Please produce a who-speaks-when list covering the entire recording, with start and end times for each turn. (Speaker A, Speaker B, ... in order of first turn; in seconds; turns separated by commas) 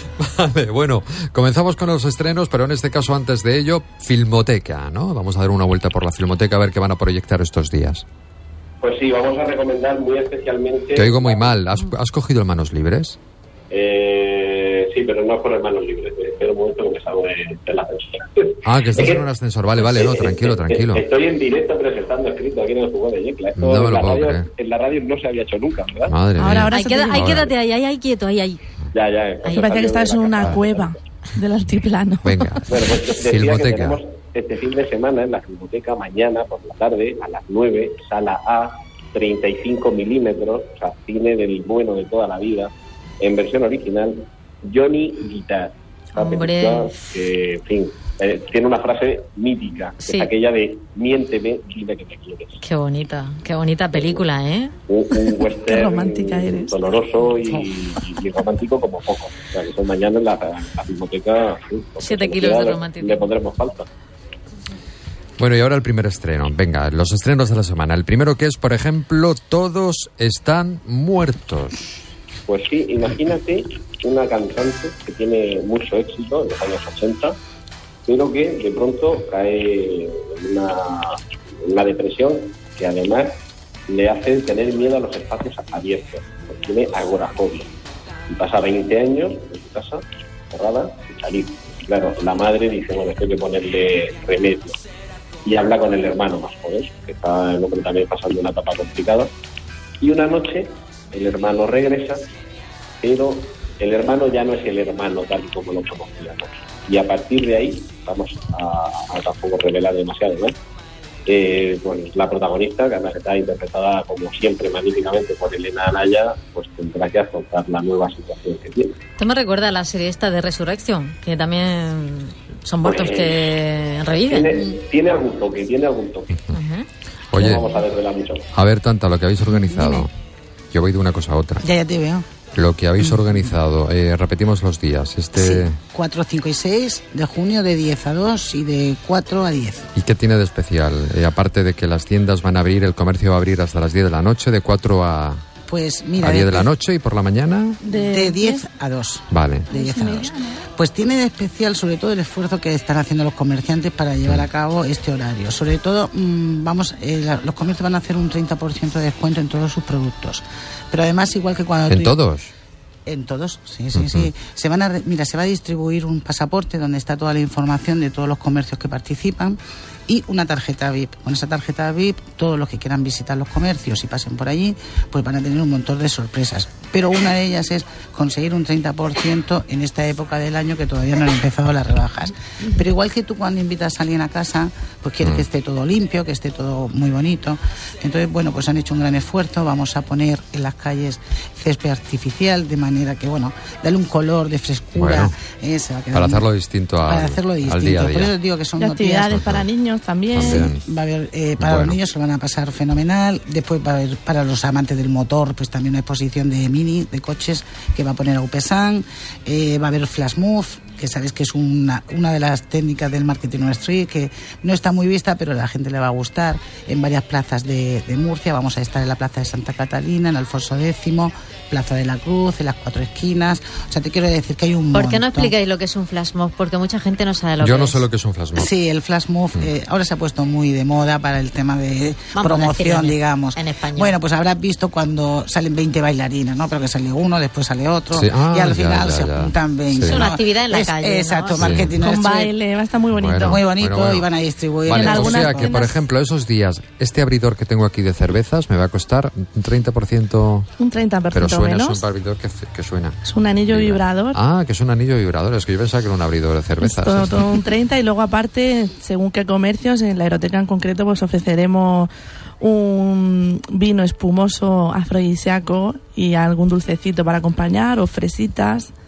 Speaker A: 0.2-8.0, Speaker B: 8.8-11.6, Speaker A: 10.9-13.2, Speaker B: 13.7-19.2, Speaker A: 18.6-21.0, Speaker B: 19.8-26.1, Speaker A: 23.6-24.5, Speaker A: 26.1-27.5, Speaker C: 26.4-27.4, Speaker D: 26.6-28.6, Speaker B: 28.9-30.9, Speaker C: 29.5-32.3, Speaker A: 32.2-34.0, Speaker B: 32.7-52.6, Speaker D: 46.1-47.0, Speaker D: 50.0-50.3, Speaker D: 52.6-54.7, Speaker B: 53.9-54.2, Speaker B: 54.9-63.9, Speaker C: 55.7-56.8, Speaker D: 62.0-63.3, Speaker A: 65.4-72.1, Speaker B: 72.5-77.3, Speaker B: 78.0-83.3, Speaker B: 83.9-87.7, Speaker B: 88.3-94.8, Speaker B: 95.4-99.3, Speaker B: 100.0-102.2, Speaker B: 103.0-110.5, Speaker B: 111.2-119.0, Speaker D: 119.2-124.7, Speaker B: 122.8-123.5, Speaker B: 124.2-126.3, Speaker D: 126.5-126.8, Speaker A: 127.3-127.7, Speaker B: 127.3-128.5, Speaker A: 128.5-130.1, Speaker E: 129.7-130.1, Speaker A: 130.7-131.6, Speaker E: 131.6-132.2, Speaker A: 132.5-135.8, Speaker E: 135.3-139.9, Speaker A: 139.9-145.4, Speaker E: 145.7-146.7, Speaker A: 146.2-147.8, Speaker C: 147.8-148.7, Speaker E: 147.9-162.2, Speaker A: 149.3-149.7, Speaker C: 149.7-150.4, Speaker A: 161.9-162.5, Speaker E: 163.1-196.5, Speaker A: 163.9-164.3, Speaker A: 194.9-195.3, Speaker A: 196.1-198.3, Speaker E: 197.0-199.5, Speaker C: 198.8-200.7, Speaker A: 199.3-199.7, Speaker A: 200.3-200.8, Speaker E: 200.3-225.5, Speaker A: 201.6-202.0, Speaker D: 224.9-228.0, Speaker A: 227.6-228.7, Speaker E: 228.5-242.6, Speaker D: 232.3-234.2, Speaker A: 238.1-240.2, Speaker D: 240.0-241.8, Speaker A: 241.6-241.9, Speaker C: 241.9-243.6, Speaker A: 243.1-244.3, Speaker E: 243.4-245.7, Speaker A: 244.8-250.7, Speaker C: 244.9-246.0, Speaker C: 250.8-252.0, Speaker A: 251.3-257.6, Speaker C: 253.2-254.4, Speaker C: 256.8-268.9